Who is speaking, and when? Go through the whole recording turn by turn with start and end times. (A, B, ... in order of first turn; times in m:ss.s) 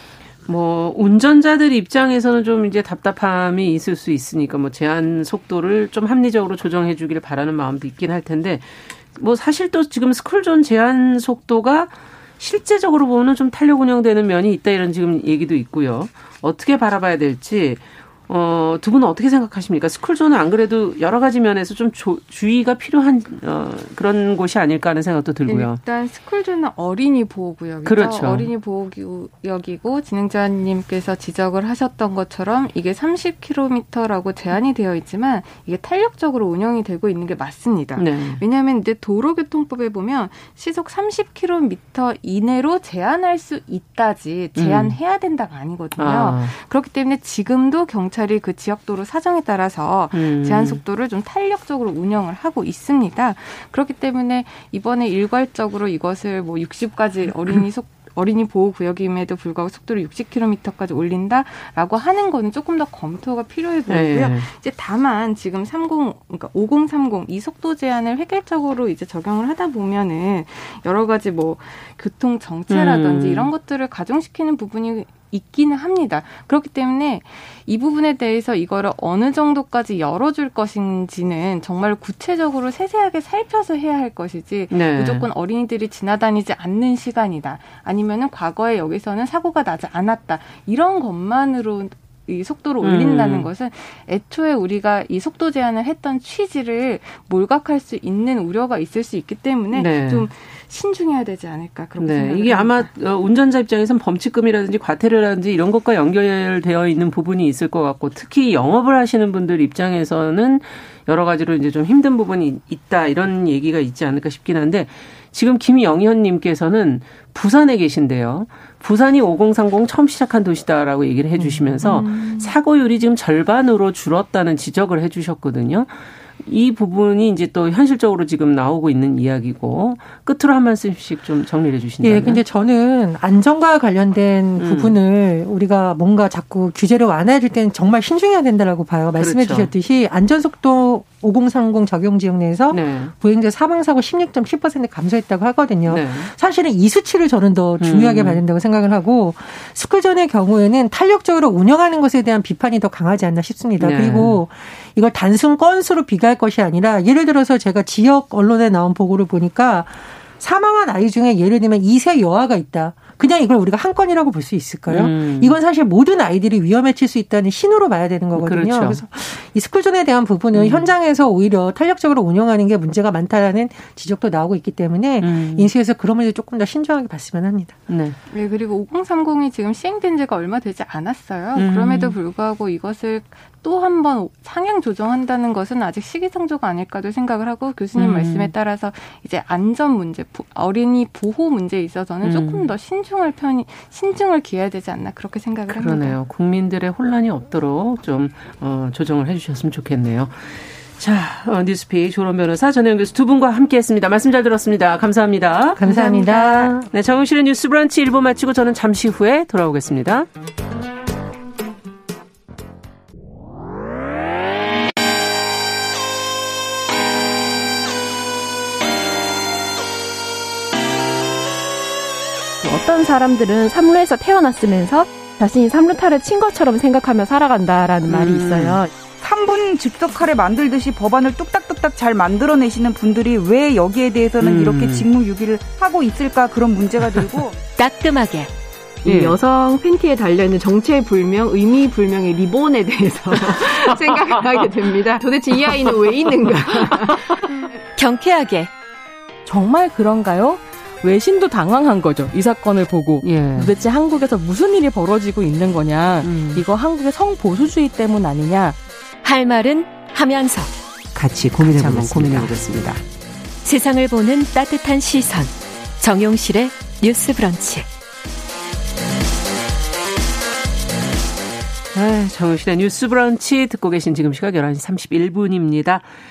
0:00.5-0:25.8 A
0:25.5-1:42.9 B
0:27.8-0:28.5 A
0:38.0-0:38.4 A
0:44.6-0:45.0 A
0:46.0-0:46.5 A
0:50.1-0:50.8 A
1:03.9-1:04.5 A
1:12.7-1:13.5 A
1:24.7-1:25.3 A
1:32.8-1:33.5 A
1:39.7-1:40.3 A
1:42.0-2:12.4 A
2:12.0-2:57.8 C
2:14.6-2:14.9 A
2:19.2-2:19.7 A
2:22.7-2:23.1 A
2:25.9-2:26.3 A
2:27.8-2:28.4 A
2:33.8-2:34.4 A
2:44.9-2:45.6 A
2:48.4-2:49.0 A
2:50.6-2:50.9 A
2:55.2-2:55.7 A
2:57.9-2:58.2 A
2:58.3-3:16.2 B
3:01.6-3:02.2 A
3:08.0-3:08.5 A
3:12.2-3:12.7 A
3:15.7-3:30.3 A
3:25.8-3:26.9 C
3:42.6-3:48.9 D
3:48.1-3:48.8 A
3:49.1-3:57.6 E
3:54.4-3:55.1 A
3:57.8-3:58.5 F
3:59.0-4:07.8 D
3:59.0-3:59.4 A
4:03.5-4:04.3 A
4:08.0-4:08.7 F
4:09.5-4:18.8 G
4:13.2-4:13.7 A
4:16.2-4:16.6 A
4:19.2-4:20.7 F
4:21.2-4:23.0 A
4:21.5-4:22.7 F
4:23.6-4:27.9 F
4:31.9-4:36.0 A